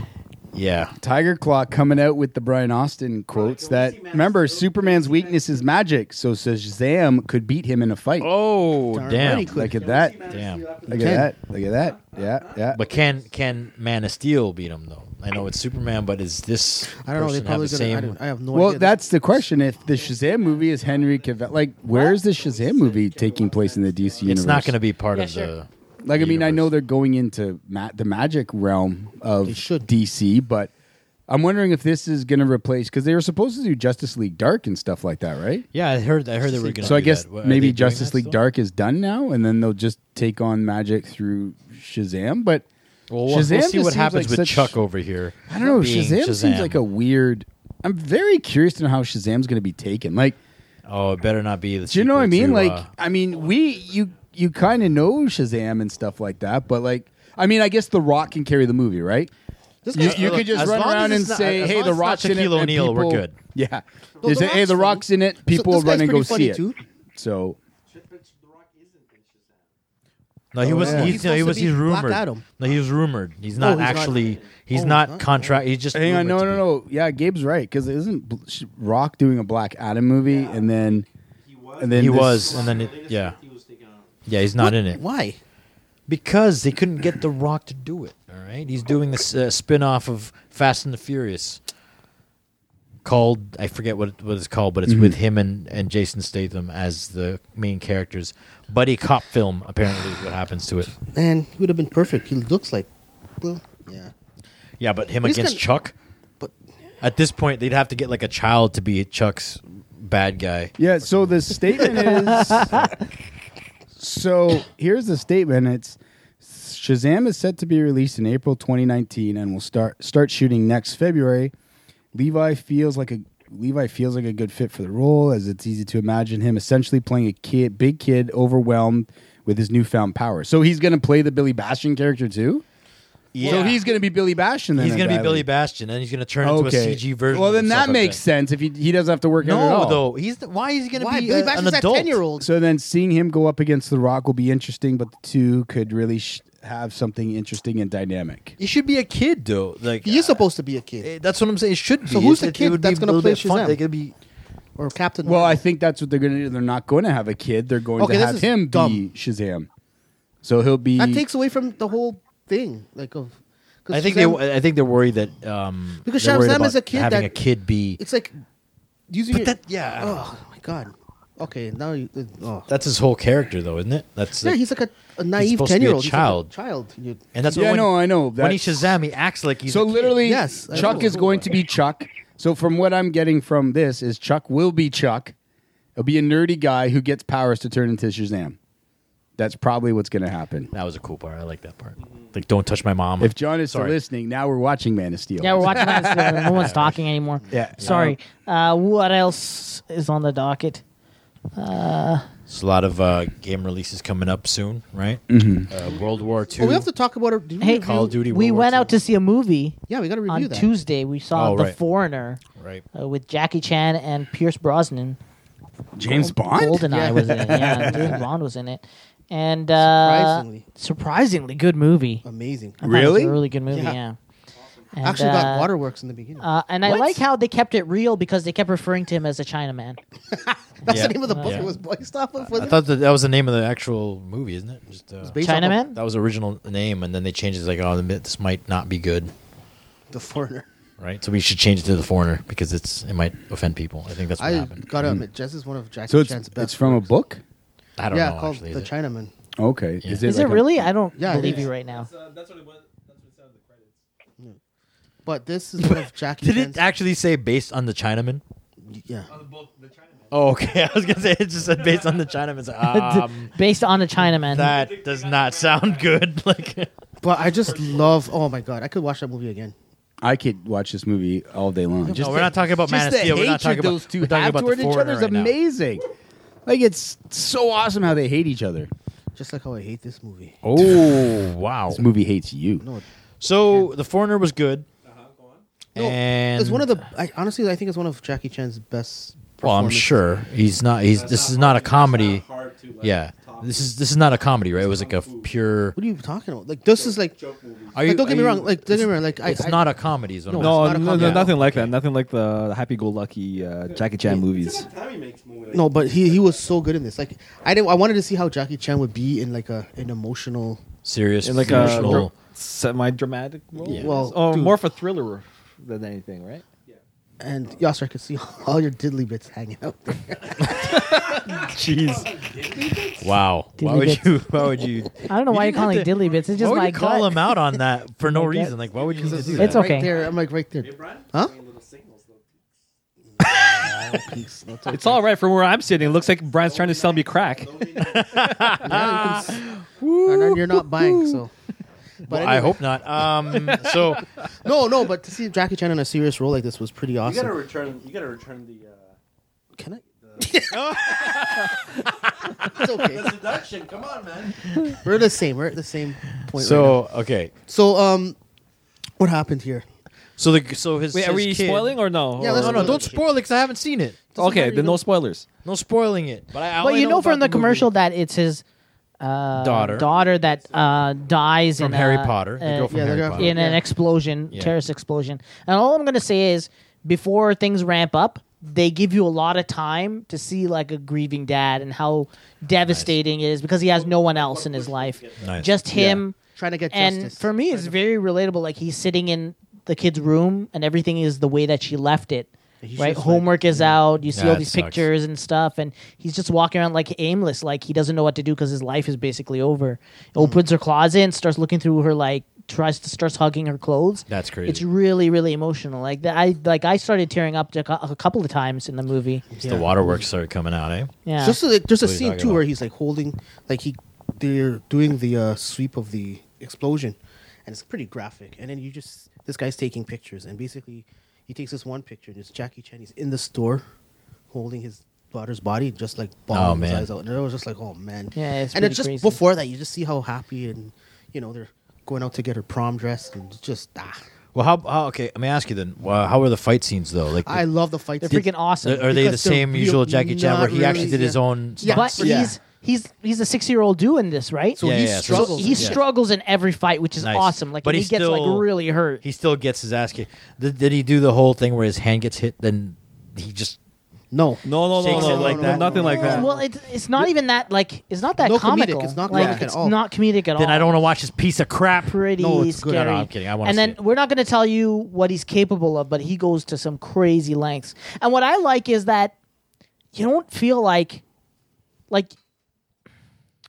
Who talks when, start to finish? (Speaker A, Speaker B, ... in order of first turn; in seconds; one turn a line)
Speaker A: 0.5-0.9
Speaker B: 1.0-8.3
Speaker C: 3.3-5.8
Speaker A: 8.2-9.6
Speaker D: 8.9-9.8
Speaker B: 9.2-10.3
Speaker C: 9.7-13.7
Speaker A: 10.3-10.7
Speaker B: 10.9-12.8
Speaker D: 10.9-11.3
Speaker A: 12.7-18.1
Speaker D: 16.9-19.0
Speaker B: 18.5-24.8
Speaker C: 19.5-24.6
Speaker A: 24.2-26.7
Speaker E: 25.1-25.5
Speaker B: 26.0-30.7
Speaker D: 29.4-29.9
Speaker B: 31.3-35.6
Speaker A: 35.7-38.4
Speaker D: 36.5-37.0
Speaker B: 36.8-42.6
Speaker A: 43.1-46.8
Speaker B: 43.2-44.8
Speaker B: 45.5-50.4
Speaker A: 50.9-52.9
Speaker B: 51.9-59.3
Speaker C: 53.0-54.2
Speaker D: 59.8-60.6
Speaker B: 59.9-67.6
Speaker A: 59.9-63.4
Speaker D: 64.2-66.8
Speaker C: 67.9-69.8
Speaker A: 70.5-76.6
Speaker D: 70.6-72.5
Speaker B: 70.6-71.2
Speaker D: 73.5-75.5
Speaker C: 73.6-74.7
Speaker B: 75.9-81.0
Speaker C: 80.2-80.8
Speaker C: 81.4-84.2
Speaker B: 81.8-82.6
Speaker A: 81.9-83.4
Speaker A: 84.2-85.0
Speaker D: 84.6-85.4
Speaker A: 86.1-91.6
Speaker A: 93.0-100.9
Speaker B: 94.9-95.2
Speaker D: 101.1-102.9
Speaker D: 103.4-104.1
Speaker A: 104.8-105.9
Speaker D: 105.2-105.6
Speaker A: 107.0-112.9
Speaker B: 110.8-112.9
Speaker B: 114.0-121.5
Speaker B: 122.1-132.6
Speaker A: 133.3-133.9
Speaker B: 133.4-135.5
Speaker C: 133.4-133.7
Speaker A: 134.7-138.2
Speaker B: 136.4-140.0
Speaker A: 139.4-142.2
Speaker D: 140.9-142.5
Speaker B: 142.4-148.5
Speaker A: 148.6-150.4
Speaker D: 150.0-151.1
Speaker A: 151.0-154.1
Speaker D: 152.1-153.8
Speaker D: 154.8-155.6
Speaker B: 155.2-159.7
Speaker D: 158.0-159.0
Speaker B: 160.4-161.2
Speaker D: 161.0-164.4
Speaker A: 163.9-168.0
Speaker D: 166.0-167.4
Speaker D: 168.0-168.3
Speaker D: 169.1-172.7
Speaker A: 169.3-170.2
Speaker A: 172.7-174.6
Speaker D: 174.4-177.3
Speaker A: 175.3-176.5
Speaker A: 177.3-181.4
Speaker B: 177.5-178.9
Speaker B: 179.7-185.3
Speaker D: 180.2-181.5
Speaker B: 186.0-188.6
Speaker B: 189.4-190.7
Speaker A: 190.7-193.9
Speaker B: 193.2-196.9
Speaker E: 195.4-200.8
Speaker A: 196.5-196.9
Speaker B: 197.5-198.2
Speaker A: 197.8-198.1
Speaker E: 201.6-202.3
Speaker A: 202.5-206.9
Speaker B: 205.3-205.7
Speaker C: 205.7-206.8
Speaker D: 206.6-208.2
Speaker E: 207.6-212.4
Speaker A: 207.7-208.9
Speaker D: 209.9-210.7
Speaker A: 211.3-211.8
Speaker A: 212.5-212.8
Speaker E: 212.9-215.2
Speaker B: 215.9-218.2
Speaker E: 216.1-222.2
Speaker D: 216.9-218.2
Speaker D: 219.8-220.7
Speaker D: 222.2-222.8
Speaker E: 222.8-224.2
Speaker B: 222.8-223.4
Speaker D: 223.7-224.0
Speaker C: 224.5-224.9
Speaker E: 224.9-225.7
Speaker D: 225.0-227.2
Speaker E: 226.4-230.0
Speaker D: 230.3-232.8
Speaker A: 230.9-231.7
Speaker E: 231.3-231.7
Speaker A: 232.4-239.3
Speaker D: 235.2-235.9
Speaker E: 235.4-236.0
Speaker D: 240.1-240.7
Speaker A: 241.0-244.9
Speaker D: 244.4-247.1
Speaker B: 246.1-247.4
Speaker A: 248.0-248.9
Speaker D: 248.1-249.3
Speaker B: 249.6-251.0
Speaker E: 250.2-252.1
Speaker D: 251.1-251.7
Speaker C: 251.3-254.0
Speaker D: 255.2-256.9
Speaker A: 255.8-258.4
Speaker D: 258.8-259.3
Speaker C: 259.3-262.5
Speaker A: 260.3-263.5
Speaker E: 262.9-264.7
Speaker A: 264.3-266.9
Speaker C: 264.6-266.7
Speaker D: 267.2-269.8
Speaker C: 267.3-268.3
Speaker B: 270.2-276.1
Speaker D: 272.0-272.5
Speaker A: 272.1-275.5
Speaker B: 276.6-278.9
Speaker D: 279.4-280.6
Speaker A: 280.6-282.0
Speaker B: 280.6-281.4
Speaker B: 281.9-282.9
Speaker D: 282.8-283.0
Speaker A: 283.4-284.9
Speaker C: 285.0-285.6
Speaker A: 285.9-286.9
Speaker D: 285.9-290.2
Speaker A: 289.6-292.4
Speaker C: 291.1-295.5
Speaker A: 293.0-296.0
Speaker D: 295.9-297.4
Speaker C: 296.9-298.1
Speaker A: 297.9-302.0
Speaker D: 298.0-299.9
Speaker D: 300.5-301.6
Speaker F: 300.5-304.9
Speaker C: 303.8-306.7
Speaker D: 304.2-304.5
Speaker D: 305.7-310.8
Speaker A: 311.0-312.3
Speaker F: 311.4-316.6
Speaker D: 311.7-312.2
Speaker A: 313.8-314.3
Speaker D: 313.8-314.8
Speaker D: 317.4-321.0
Speaker C: 320.7-323.2
Speaker F: 320.8-321.4
Speaker A: 321.5-322.2
Speaker A: 323.2-329.8
Speaker E: 323.8-324.3
Speaker E: 325.3-327.5
Speaker C: 326.2-326.6
Speaker E: 328.3-328.7
Speaker C: 328.9-332.8
Speaker D: 329.2-331.5
Speaker E: 329.6-330.1
Speaker D: 333.4-335.3
Speaker F: 334.9-338.8
Speaker C: 335.9-338.7
Speaker A: 338.0-341.4
Speaker D: 338.8-339.7
Speaker D: 340.2-341.5
Speaker D: 342.3-342.9
Speaker A: 342.3-344.2
Speaker D: 343.8-344.1
Speaker D: 344.6-347.6
Speaker C: 347.2-349.1
Speaker D: 349.8-351.4
Speaker C: 350.1-351.4
Speaker A: 350.7-351.6
Speaker D: 352.6-353.4
Speaker C: 352.6-354.6
Speaker D: 355.0-357.0
Speaker A: 356.2-357.5
Speaker D: 357.7-358.4
Speaker D: 359.2-359.9
Speaker A: 360.4-364.2
Speaker F: 361.1-363.1
Speaker D: 362.3-363.3
Speaker D: 364.3-365.0
Speaker F: 364.4-365.4
Speaker A: 365.6-367.9
Speaker E: 366.8-368.6
Speaker E: 369.2-386.4
Speaker A: 369.5-370.1
Speaker C: 370.0-371.5
Speaker A: 371.8-373.6
Speaker D: 372.9-373.8
Speaker A: 382.9-383.1
Speaker C: 383.9-385.7
Speaker A: 385.4-386.2
Speaker D: 386.0-387.9
Speaker E: 386.9-409.5
Speaker D: 392.8-394.0
Speaker A: 394.3-395.1
Speaker D: 400.4-400.6
Speaker A: 404.3-404.8
Speaker D: 409.5-410.3
Speaker A: 409.6-411.1
Speaker E: 411.2-411.6
Speaker D: 411.4-423.9
Speaker A: 412.0-412.6
Speaker D: 424.5-434.2
Speaker A: 426.5-427.1
Speaker E: 428.3-429.4
Speaker A: 434.5-437.6
Speaker D: 437.4-438.5
Speaker E: 438.2-439.1
Speaker A: 438.3-442.2
Speaker D: 439.0-442.5
Speaker E: 441.8-449.2
Speaker D: 444.8-446.0
Speaker A: 444.8-446.0
Speaker A: 447.2-448.7
Speaker A: 449.2-453.8
Speaker D: 454.3-456.6
Speaker F: 454.6-456.5
Speaker A: 454.9-456.3
Speaker E: 456.1-461.0
Speaker D: 458.4-460.0
Speaker B: 459.3-459.6
Speaker A: 460.5-462.2
Speaker E: 462.1-469.3
Speaker D: 462.4-463.1
Speaker A: 462.9-464.0
Speaker E: 470.1-471.2
Speaker E: 472.1-472.3